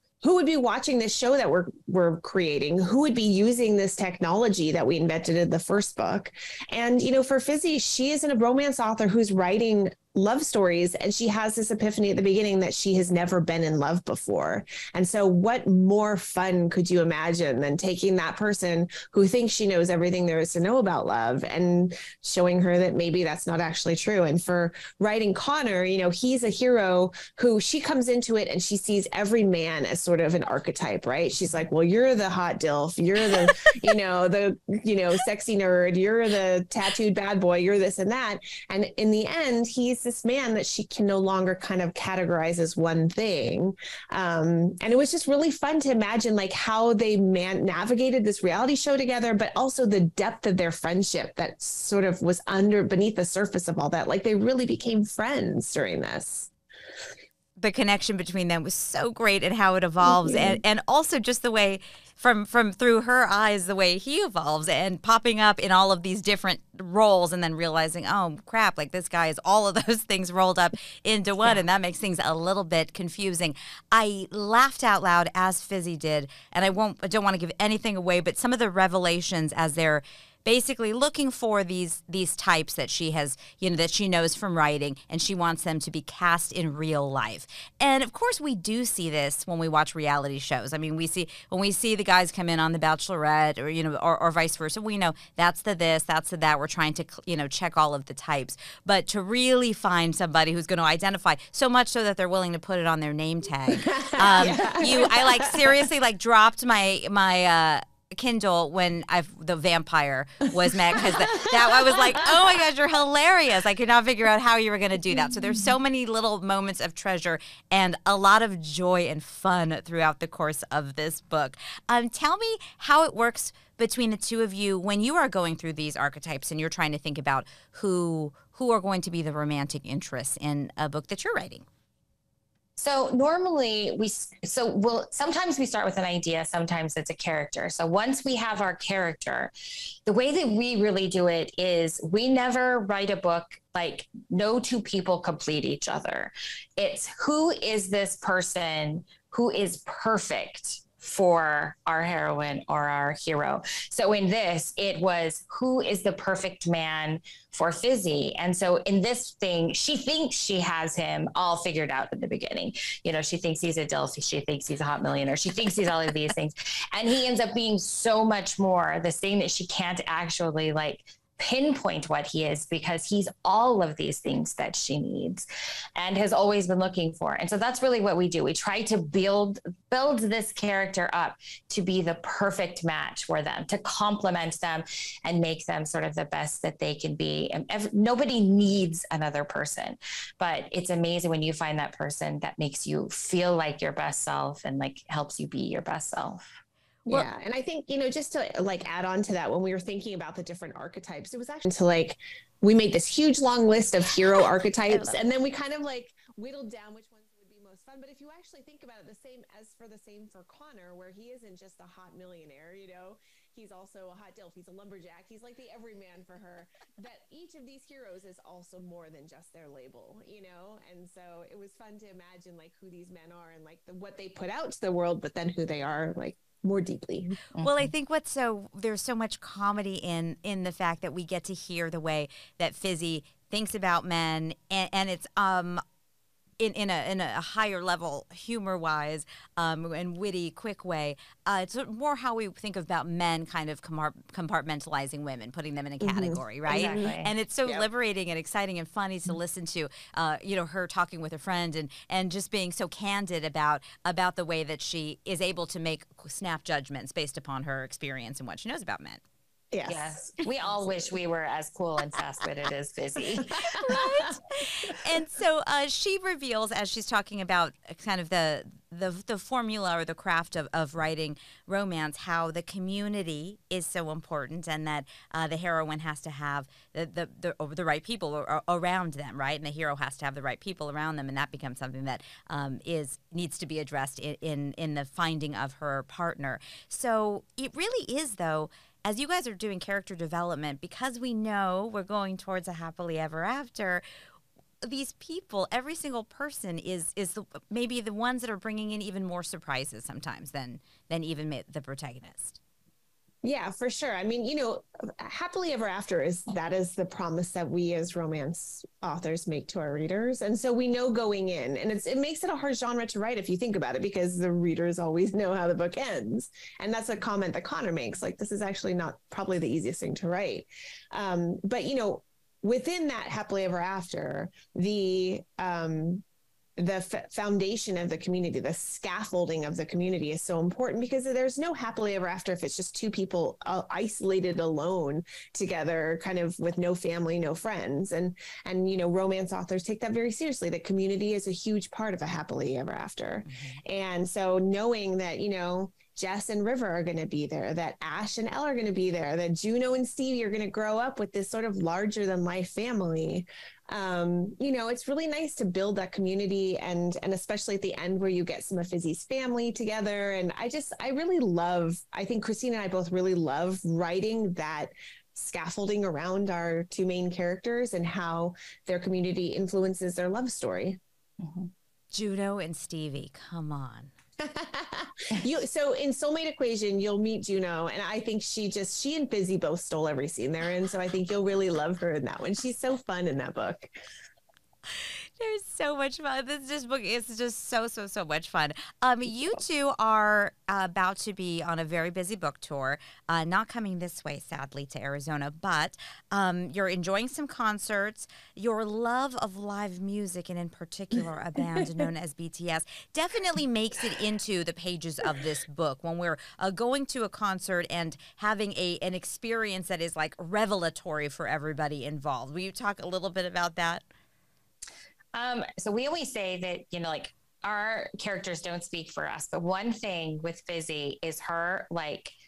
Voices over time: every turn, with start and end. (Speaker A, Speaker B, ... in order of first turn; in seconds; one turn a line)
Speaker A: 0.2-56.5
Speaker B: 33.5-33.8
Speaker B: 57.6-131.7
Speaker A: 60.0-60.6
Speaker A: 103.7-105.8
Speaker A: 111.0-112.3
Speaker A: 115.2-115.6
Speaker C: 132.8-139.5
Speaker C: 140.1-196.4
Speaker A: 197.1-227.4
Speaker B: 204.9-205.2
Speaker C: 227.6-227.9
Speaker B: 227.6-235.8
Speaker B: 236.6-259.2
Speaker A: 246.0-247.1
Speaker C: 246.7-247.3
Speaker A: 259.7-260.2
Speaker C: 259.9-263.7
Speaker A: 263.3-264.4
Speaker B: 263.7-294.0
Speaker B: 294.8-302.6
Speaker A: 303.4-326.2
Speaker A: 326.8-371.0
Speaker B: 343.4-343.8
Speaker C: 371.4-371.7
Speaker B: 372.1-374.1
Speaker A: 374.4-383.9
Speaker B: 384.9-414.1
Speaker C: 415.3-422.3